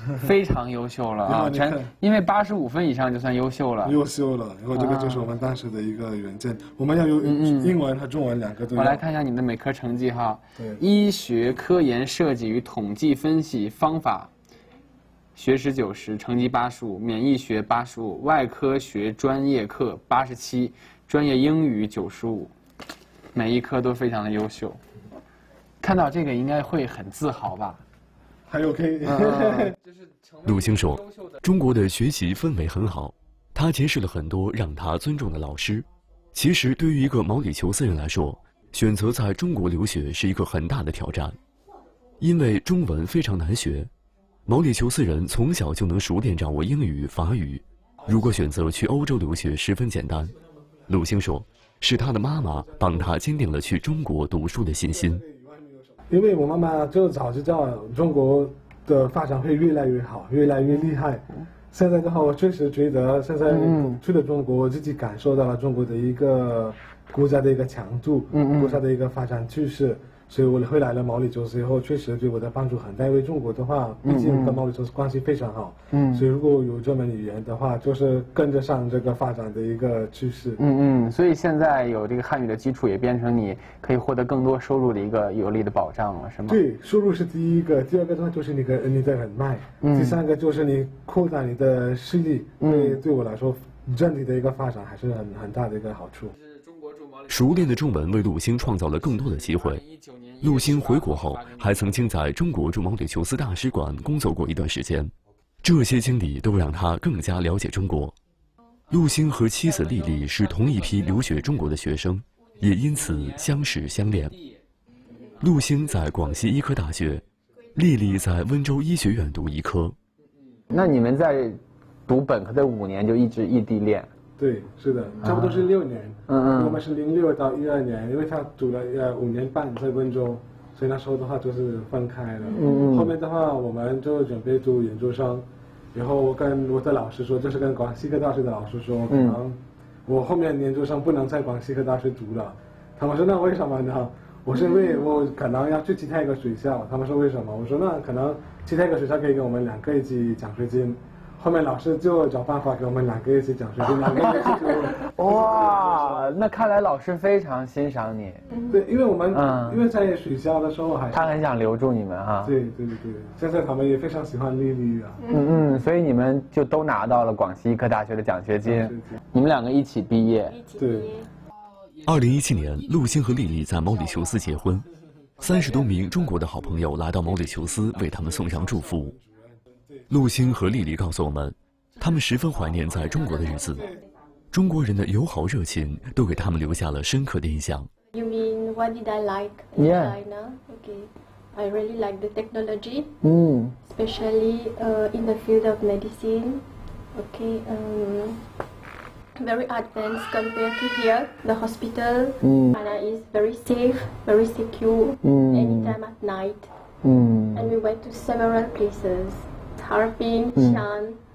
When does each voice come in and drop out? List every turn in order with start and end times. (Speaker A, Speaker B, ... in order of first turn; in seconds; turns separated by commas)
Speaker A: 0.2-4.0, Speaker B: 1.2-1.9, Speaker B: 3.8-9.0, Speaker A: 4.7-5.3, Speaker A: 7.2-7.7, Speaker A: 8.7-14.3, Speaker A: 15.3-22.5, Speaker A: 23.3-24.8, Speaker A: 25.8-27.8, Speaker B: 28.5-29.8, Speaker A: 29.0-29.7, Speaker C: 30.4-41.4, Speaker C: 42.2-43.9, Speaker C: 44.5-50.3, Speaker C: 50.9-55.2, Speaker B: 55.2-80.6, Speaker A: 63.5-64.0, Speaker A: 68.3-68.8, Speaker A: 74.0-74.6, Speaker A: 75.9-76.2, Speaker A: 80.6-86.6, Speaker B: 86.5-96.3, Speaker A: 89.8-90.2, Speaker A: 92.6-93.0, Speaker A: 96.7-97.2, Speaker C: 97.3-99.8, Speaker A: 99.9-101.2, Speaker C: 100.4-108.2, Speaker C: 108.9-114.4, Speaker C: 115.4-120.0, Speaker A: 120.7-124.1, Speaker B: 124.4-156.2, Speaker A: 125.2-125.6, Speaker A: 126.3-126.8, Speaker A: 132.5-133.1, Speaker A: 139.1-139.4, Speaker A: 154.1-158.4, Speaker D: 158.5-158.8, Speaker B: 158.7-161.4, Speaker A: 159.3-159.8, Speaker A: 161.1-162.5, Speaker B: 162.4-165.2, Speaker D: 165.2-165.6, Speaker A: 165.3-170.6, Speaker B: 168.6-169.2, Speaker D: 170.4-171.3, Speaker B: 170.8-171.1, Speaker C: 172.0-174.9, Speaker C: 175.4-179.1, Speaker B: 178.7-179.2, Speaker C: 180.1-183.9, Speaker C: 184.5-187.9, Speaker D: 188.1-193.1, Speaker A: 189.8-190.2, Speaker A: 193.2-193.8, Speaker D: 193.8-196.6, Speaker D: 197.2-198.4, Speaker D: 199.4-206.7, Speaker A: 202.4-202.8, Speaker A: 205.2-205.9, Speaker A: 207.0-207.7, Speaker D: 207.5-211.2, Speaker A: 210.6-210.8